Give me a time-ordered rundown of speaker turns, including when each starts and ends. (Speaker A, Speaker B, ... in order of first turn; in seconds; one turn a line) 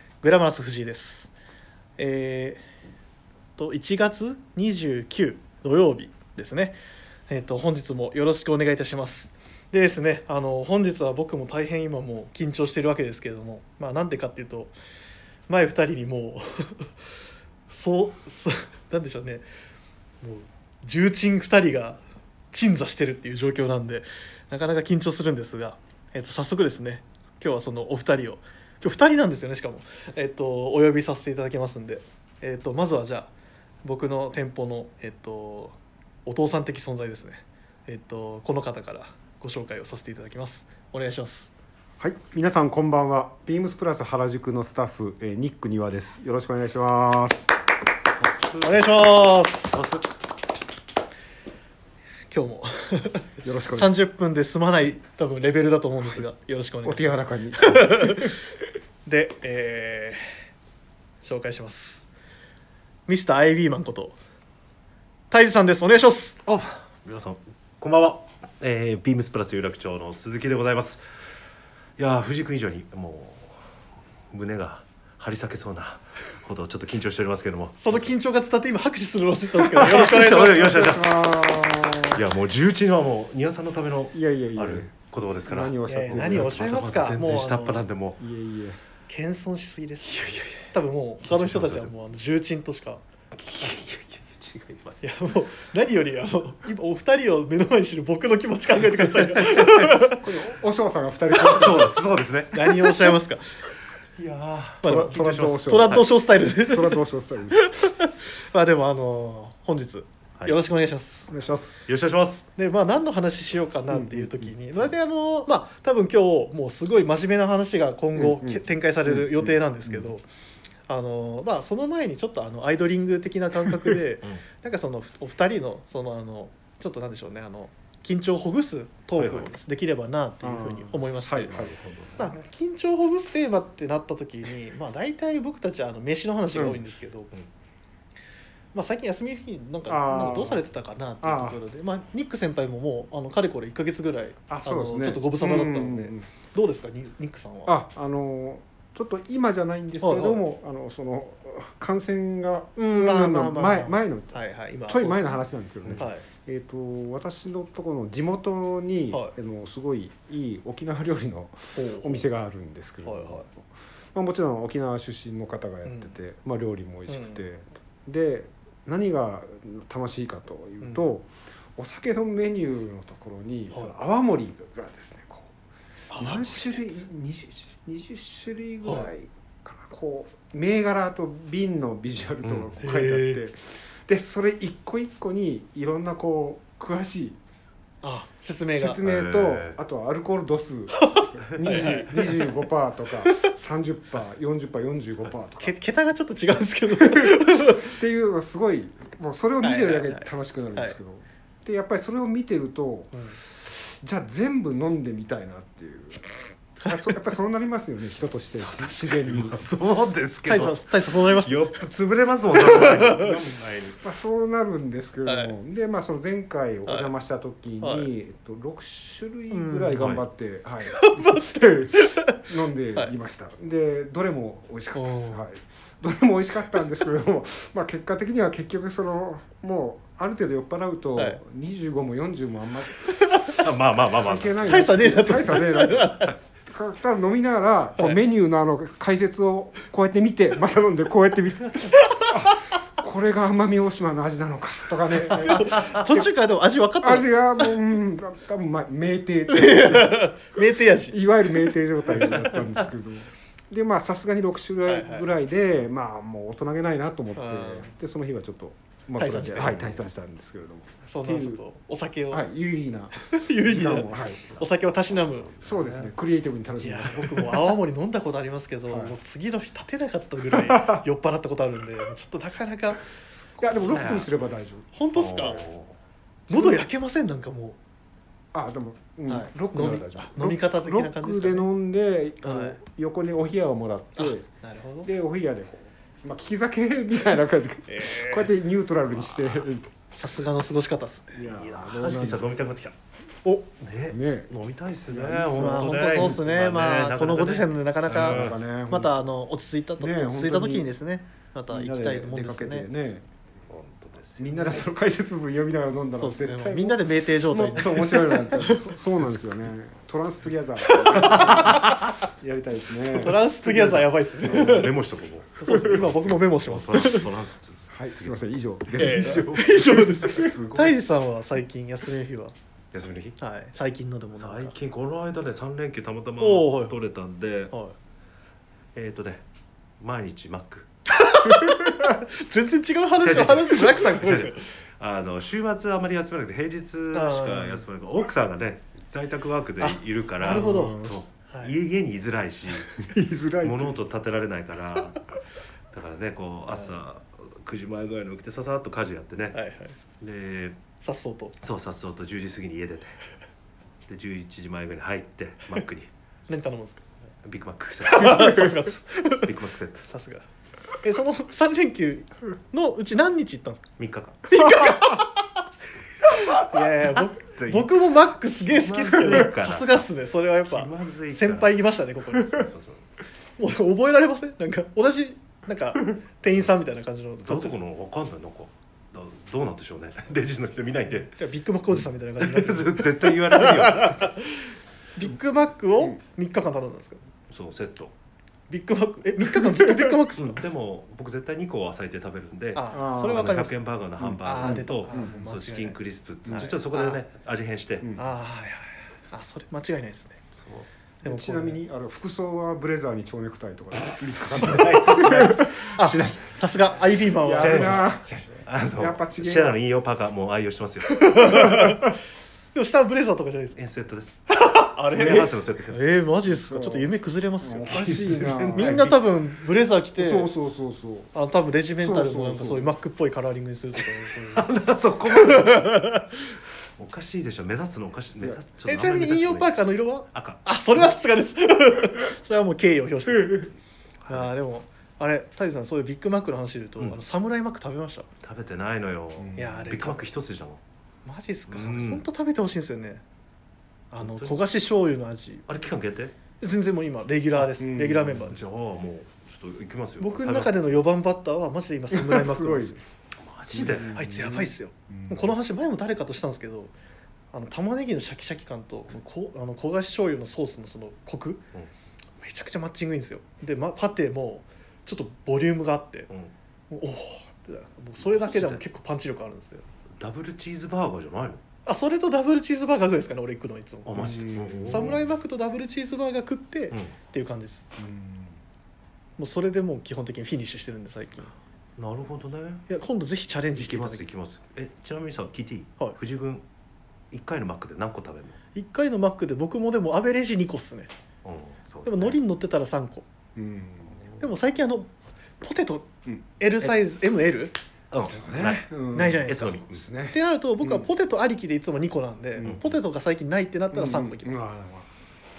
Speaker A: 0.2-1.3
Speaker A: 2.0-2.6
Speaker A: 3.6-6.8
Speaker A: 7.3-14.7
Speaker A: 15.5-16.9
Speaker A: 17.7-19.4
Speaker A: 20.2-33.3
Speaker A: 33.8-41.5
Speaker B: 42.0-47.5
Speaker C: 48.2-48.9
Speaker A: 48.6-49.8
Speaker C: 49.7-50.0
Speaker A: 52.3-58.3
Speaker B: 53.4-53.9
Speaker B: 56.8-58.3
Speaker A: 59.1-60.3
Speaker A: 61.2-62.1
Speaker A: 63.1-64.2
Speaker A: 65.3-66.4
Speaker C: 66.5-71.0
Speaker C: 72.0-73.7
Speaker C: 74.3-78.1
Speaker A: 77.8-81.0
Speaker C: 79.7-81.3
Speaker B: 80.6-82.2
Speaker C: 82.1-88.2
Speaker B: 84.1-84.9
Speaker B: 85.5-86.8
Speaker A: 85.9-87.8
Speaker B: 88.2-88.8
Speaker A: 89.1-93.0
Speaker C: 90.1-90.7
Speaker C: 91.2-91.9
Speaker C: 93.4-95.0
Speaker A: 95.0-100.2
Speaker C: 98.8-100.0
Speaker B: 100.2-102.0
Speaker C: 101.3-103.1
Speaker A: 102.5-103.5
Speaker C: 104.2-106.1
Speaker A: 104.8-107.0
Speaker B: 104.8-107.7
Speaker A: 107.5-111.3
Speaker B: 111.3-111.8
Speaker C: 111.9-112.5
Speaker A: 112.5-120.2
Speaker B: 113.9-114.5
Speaker B: 118.2-120.1
Speaker A: 120.9-131.5
Speaker C: 129.2-129.5
Speaker B: 130.4-132.3
Speaker A: 132.2-137.3
Speaker B: 136.6-136.8
Speaker A: 138.7-147.8
Speaker B: 139.9-140.6
Speaker B: 141.2-141.6
Speaker B: 144.5-146.3
Speaker B: 147.7-154.4
Speaker A: 150.0-150.4
Speaker A: 152.8-155.4
Speaker B: 154.9-175.5
Speaker A: 155.9-156.2
Speaker A: 161.8-162.3
Speaker A: 163.1-163.4
Speaker A: 165.8-166.1
Speaker A: 167.1-167.4
Speaker A: 176.1-176.8
Speaker B: 176.2-187.4
Speaker A: 178.8-179.1
Speaker C: 182.4-182.8
Speaker A: 182.8-183.4
Speaker A: 188.0-189.0
Speaker B: 188.8-195.8
Speaker C: 189.0-189.8
Speaker A: 191.0-192.4
Speaker A: 193.3-193.5
Speaker A: 195.6-197.9
Speaker B: 197.0-209.7
Speaker A: 199.6-200.9
Speaker A: 203.1-203.4
Speaker C: 208.6-214.0
Speaker A: 210.4-211.7
Speaker A: 212.6-213.4
Speaker B: 214.0-233.1
Speaker A: 215.2-215.5
Speaker A: 217.8-218.1
Speaker A: 219.5-220.0
Speaker C: 220.0-220.2
Speaker A: 220.9-222.4
Speaker A: 224.9-225.4
Speaker A: 233.1-233.6
Speaker C: 233.6-234.9
Speaker B: 234.2-246.3
Speaker A: 234.7-236.3
Speaker A: 242.0-242.3
Speaker A: 245.2-247.8
Speaker B: 247.0-250.3
Speaker A: 249.5-251.2
Speaker B: 251.1-261.6
Speaker A: 254.9-255.3
Speaker A: 257.4-257.9
Speaker A: 259.2-259.8
Speaker C: 259.5-260.0
Speaker A: 261.1-262.5
Speaker B: 262.3-264.6
Speaker A: 263.2-265.6
Speaker C: 265.3-266.1
Speaker B: 265.6-267.8
Speaker A: 266.8-273.1
Speaker B: 268.9-269.1
Speaker B: 270.5-271.0
Speaker B: 273.6-274.9
Speaker A: 273.6-274.1
Speaker C: 273.8-274.3
Speaker A: 274.9-275.6
Speaker C: 275.1-276.0
Speaker A: 276.5-277.8
Speaker B: 276.5-276.9
Speaker B: 278.5-284.5
Speaker A: 279.3-281.7
Speaker A: 282.4-282.8
Speaker A: 284.2-285.1
Speaker B: 285.0-289.9
Speaker A: 287.9-288.5
Speaker C: 289.1-289.6
Speaker A: 290.1-291.5
Speaker B: 291.4-292.7
Speaker C: 291.4-292.9
Speaker C: 293.8-298.6
Speaker B: 294.1-294.5
Speaker B: 295.1-296.5
Speaker A: 295.5-302.9
Speaker B: 298.1-299.1
Speaker B: 300.0-300.9
Speaker B: 301.7-303.2
Speaker C: 303.7-304.7
Speaker B: 304.4-314.9
Speaker A: 306.2-308.9
Speaker A: 310.8-312.1
Speaker C: 311.3-311.8
Speaker A: 313.1-314.9
Speaker C: 313.8-321.0
Speaker A: 315.6-317.3
Speaker B: 317.9-319.5
Speaker A: 319.0-322.6
Speaker C: 322.9-323.4
Speaker A: 323.4-324.7
Speaker C: 324.4-327.7
Speaker A: 326.4-326.9
Speaker C: 328.9-329.4
Speaker C: 330.0-330.9
Speaker A: 331.1-334.7
Speaker B: 331.7-332.1
Speaker C: 333.2-343.0
Speaker A: 337.1-337.8
Speaker A: 339.8-341.8
Speaker B: 340.4-341.2
Speaker B: 343.0-344.0
Speaker C: 343.6-345.2
Speaker C: 345.9-349.6
Speaker A: 349.5-349.9
Speaker C: 350.2-350.8
Speaker A: 351.0-351.6
Speaker C: 351.6-353.2
Speaker C: 354.1-356.1
Speaker A: 356.5-357.1
Speaker C: 357.4-360.1
Speaker A: 358.1-359.5
Speaker A: 360.1-360.4
Speaker A: 361.0-363.9
Speaker C: 364.0-364.8
Speaker A: 364.5-365.5
Speaker A: 366.3-372.7
Speaker C: 367.5-367.9
Speaker C: 368.6-370.1
Speaker C: 370.7-371.8
Speaker C: 372.4-373.0
Speaker A: 373.6-377.8
Speaker C: 377.4-381.4
Speaker A: 381.2-384.5
Speaker C: 382.4-384.4
Speaker A: 385.2-387.2
Speaker C: 387.5-388.1
Speaker A: 388.7-390.6
Speaker B: 389.6-390.1
Speaker C: 390.4-398.2
Speaker A: 392.7-393.8
Speaker B: 392.9-393.7
Speaker B: 394.2-395.4
Speaker A: 394.4-396.0
Speaker B: 396.4-396.7
Speaker A: 396.5-397.2
Speaker A: 398.2-400.4
Speaker A: 401.2-401.8
Speaker B: 401.2-406.6
Speaker C: 404.0-405.5
Speaker A: 404.5-408.0
Speaker B: 407.4-409.8
Speaker C: 407.6-411.7
Speaker A: 411.1-412.1
Speaker A: 412.7-413.8
Speaker C: 413.8-414.4
Speaker A: 414.5-420.5
Speaker C: 415.1-416.3
Speaker B: 416.5-419.1
Speaker C: 417.9-419.2
Speaker B: 420.2-421.3
Speaker A: 421.3-424.7
Speaker B: 422.0-422.9
Speaker C: 424.3-425.9
Speaker A: 425.2-426.3
Speaker C: 427.0-429.7
Speaker A: 428.9-433.7
Speaker C: 430.3-430.7
Speaker B: 433.4-433.6
Speaker C: 434.2-434.5
Speaker A: 434.3-438.3
Speaker C: 438.4-440.8
Speaker B: 439.4-439.9
Speaker A: 439.6-440.2
Speaker A: 441.2-443.2
Speaker C: 441.7-442.2
Speaker A: 444.1-445.7
Speaker C: 444.2-444.6
Speaker C: 445.7-446.3
Speaker A: 446.6-448.7
Speaker B: 447.8-448.4
Speaker C: 448.3-450.7
Speaker A: 450.2-453.0
Speaker B: 452.1-453.0
Speaker C: 453.4-454.2
Speaker B: 453.7-455.5
Speaker A: 454.0-456.9
Speaker A: 457.5-461.6
Speaker A: 462.4-466.3
Speaker A: 466.9-469.9
Speaker C: 468.2-468.8
Speaker C: 470.2-471.6
Speaker A: 471.9-474.3
Speaker C: 474.1-475.2
Speaker B: 474.1-475.2
Speaker A: 474.9-477.9
Speaker B: 478.0-478.6
Speaker A: 479.4-481.5
Speaker C: 482.0-482.9
Speaker A: 482.9-484.2
Speaker C: 483.7-486.6
Speaker C: 487.3-488.6
Speaker A: 488.8-491.1
Speaker C: 491.4-492.4
Speaker A: 492.1-493.2
Speaker B: 493.6-494.2
Speaker A: 494.4-495.1
Speaker A: 495.6-497.8
Speaker C: 498.1-499.9
Speaker B: 498.3-501.1
Speaker A: 499.1-504.6
Speaker B: 502.6-502.8
Speaker B: 503.9-505.1